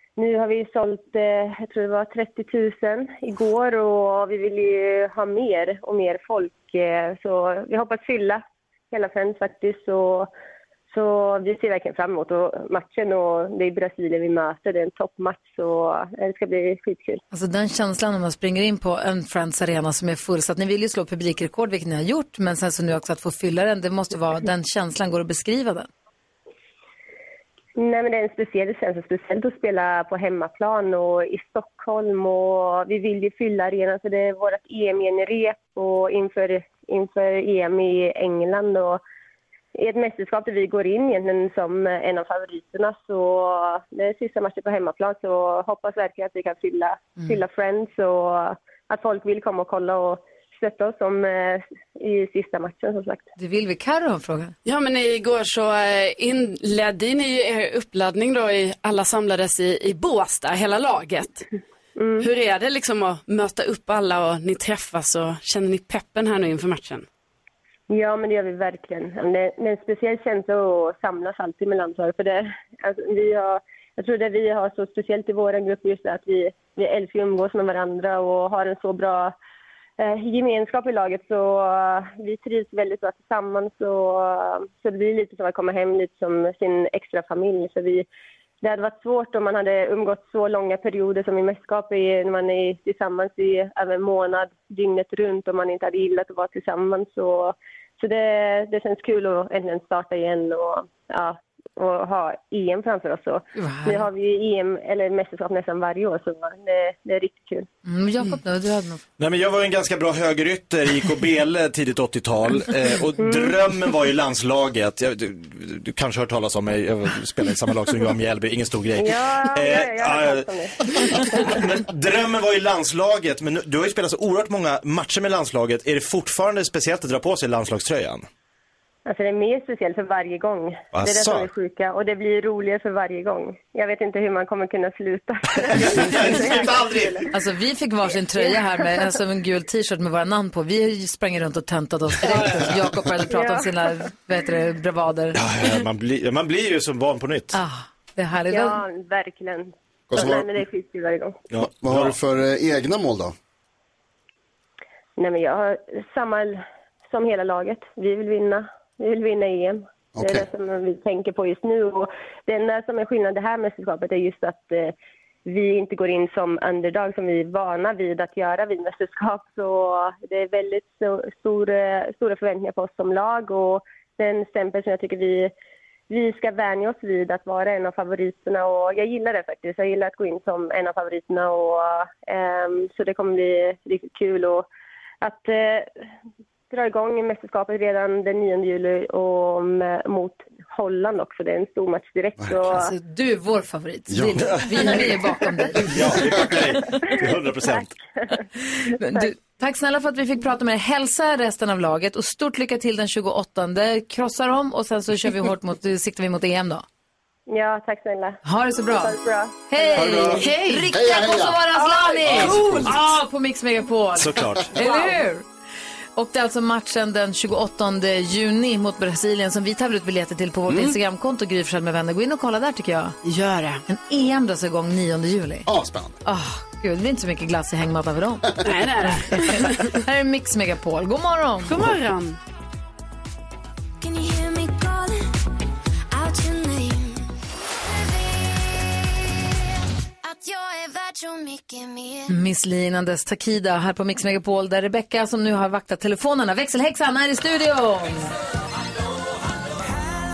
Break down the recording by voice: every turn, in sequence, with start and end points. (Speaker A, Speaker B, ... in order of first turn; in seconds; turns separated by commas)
Speaker A: 0.2-10.3, Speaker A: 10.9-17.2, Speaker B: 17.3-25.9, Speaker A: 27.8-39.0, Speaker A: 39.7-53.3, Speaker B: 53.4-54.5, Speaker C: 54.6-61.4, Speaker A: 62.0-62.3, Speaker C: 62.2-67.0, Speaker A: 67.9-79.3, Speaker A: 80.0-88.1, Speaker A: 88.6-107.7, Speaker B: 103.5-104.1, Speaker B: 107.8-109.0, Speaker D: 109.2-128.2, Speaker A: 113.2-113.5, Speaker A: 119.0-121.6, Speaker A: 129.1-137.3, Speaker D: 130.9-131.5, Speaker D: 135.6-137.2, Speaker B: 137.3-145.4, Speaker A: 143.2-143.8, Speaker D: 145.3-147.6, Speaker B: 147.5-148.8, Speaker A: 148.5-151.4, Speaker E: 150.1-150.5, Speaker D: 151.5-152.1, Speaker E: 151.7-153.3, Speaker A: 155.2-164.9, Speaker E: 160.2-160.5, Speaker A: 165.4-175.5, Speaker A: 176.1-184.7, Speaker A: 185.2-185.9, Speaker A: 186.7-192.9, Speaker B: 192.7-196.9, Speaker E: 194.1-195.1, Speaker D: 194.4-195.0, Speaker D: 195.8-197.9, Speaker A: 197.6-198.4, Speaker B: 198.8-206.8, Speaker A: 199.0-199.3, Speaker A: 207.5-209.9, Speaker B: 208.4-209.2, Speaker B: 209.7-215.4, Speaker E: 209.9-211.7, Speaker C: 210.3-210.9, Speaker D: 212.2-213.0, Speaker E: 212.2-212.8, Speaker D: 214.2-214.8, Speaker C: 214.8-215.0, Speaker B: 216.2-223.2, Speaker E: 220.7-220.9, Speaker C: 223.2-223.8, Speaker B: 223.8-225.7, Speaker E: 225.7-226.2, Speaker B: 226.2-231.7, Speaker C: 228.6-230.0, Speaker C: 231.6-232.4, Speaker F: 234.0-235.3, Speaker F: 236.1-237.3, Speaker F: 237.8-238.9, Speaker F: 240.2-242.3, Speaker B: 242.3-248.3